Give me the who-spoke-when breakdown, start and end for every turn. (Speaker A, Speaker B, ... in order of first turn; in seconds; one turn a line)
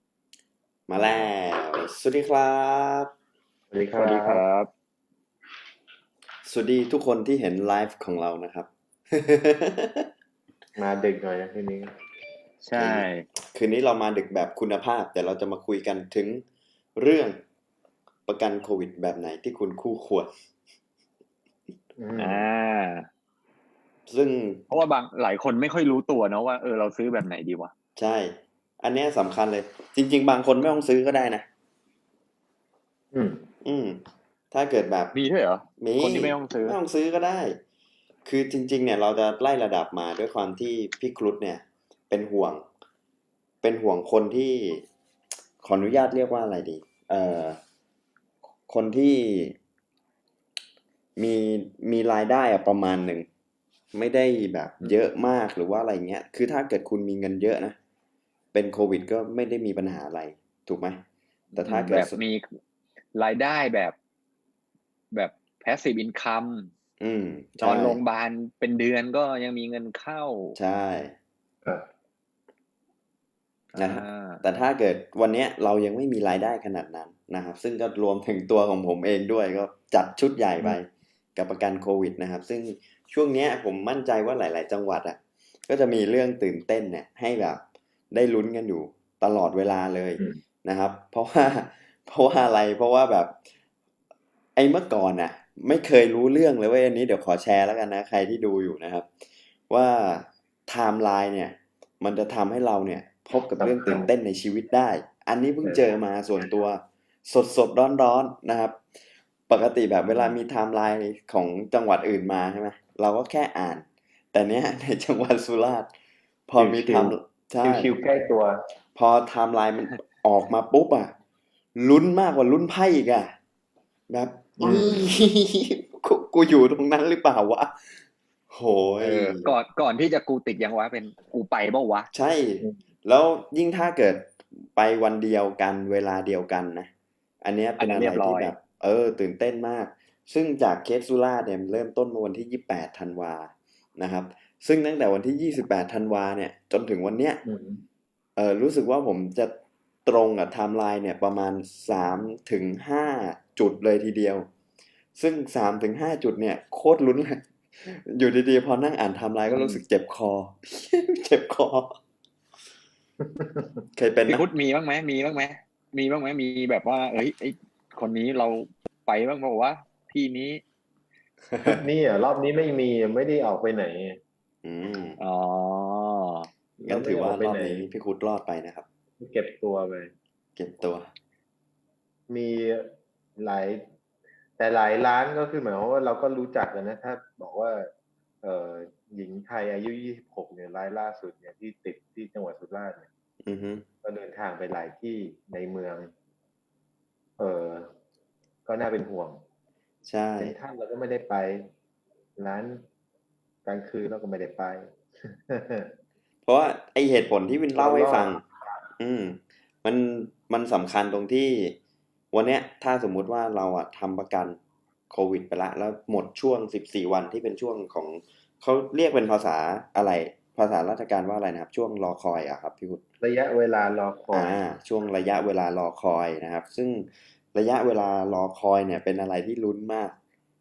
Speaker A: 0.9-3.1
Speaker B: 1.0-1.3
Speaker B: 3.7-4.4
Speaker C: 3.9-4.7
Speaker A: 6.5-10.1
Speaker B: 10.8-11.9
Speaker C: 12.6-13.3
Speaker A: 12.7-16.4
Speaker A: 17.0-17.4
Speaker A: 18.3-20.3
Speaker B: 22.0-22.5
Speaker C: 22.2-23.1
Speaker A: 24.1-24.6
Speaker C: 24.7-27.7
Speaker A: 28.0-31.5
Speaker B: 33.1-33.4
Speaker A: 33.6-35.1
Speaker C: 35.1-36.8
Speaker A: 35.8-37.6
Speaker A: 38.2-42.7
Speaker A: 43.6-44.9
Speaker A: 45.6-47.6
Speaker A: 48.7-49.6
Speaker A: 51.2-53.3
Speaker A: 53.9-57.8
Speaker A: 58.5-61.0
Speaker A: 61.5-62.2
Speaker C: 61.5-62.5
Speaker C: 63.1-64.0
Speaker C: 65.1-66.7
Speaker A: 67.0-68.0
Speaker C: 67.6-70.6
Speaker A: 70.5-71.1
Speaker C: 73.7-74.4
Speaker A: 73.8-93.4
Speaker A: 94.6-99.1
Speaker A: 99.7-108.8
Speaker B: 103.5-104.1
Speaker A: 109.5-115.9
Speaker A: 116.5-117.9
Speaker B: 116.6-118.6
Speaker A: 119.0-121.1
Speaker A: 121.8-123.4
Speaker A: 124.1-129.5
Speaker B: 124.6-125.1
Speaker C: 129.0-132.1
Speaker A: 132.1-136.9
Speaker A: 137.4-147.4
Speaker C: 137.8-138.5
Speaker B: 147.4-147.8
Speaker A: 148.4-154.5
Speaker A: 155.2-162.0
Speaker C: 159.5-159.8
Speaker B: 163.2-163.8
Speaker A: 163.9-164.4
Speaker C: 164.3-170.6
Speaker A: 171.5-171.8
Speaker B: 171.6-174.2
Speaker A: 174.6-175.2
Speaker C: 175.2-176.5
Speaker B: 176.8-177.8
Speaker A: 176.8-178.9
Speaker B: 179.2-180.1
Speaker A: 180.6-181.1
Speaker B: 182.3-183.9
Speaker B: 184.6-187.9
Speaker B: 188.4-193.1
Speaker A: 193.4-193.9
Speaker B: 194.0-196.1
Speaker B: 197.4-197.9
Speaker B: 198.7-199.4
Speaker A: 200.1-200.6
Speaker B: 200.4-201.7
Speaker B: 202.4-202.8
Speaker B: 203.7-205.9
Speaker A: 206.4-208.4
Speaker B: 207.8-208.8
Speaker A: 209.0-211.8
Speaker A: 212.3-214.6
Speaker A: 215.1-223.0
Speaker B: 223.2-224.6
Speaker A: 224.3-230.2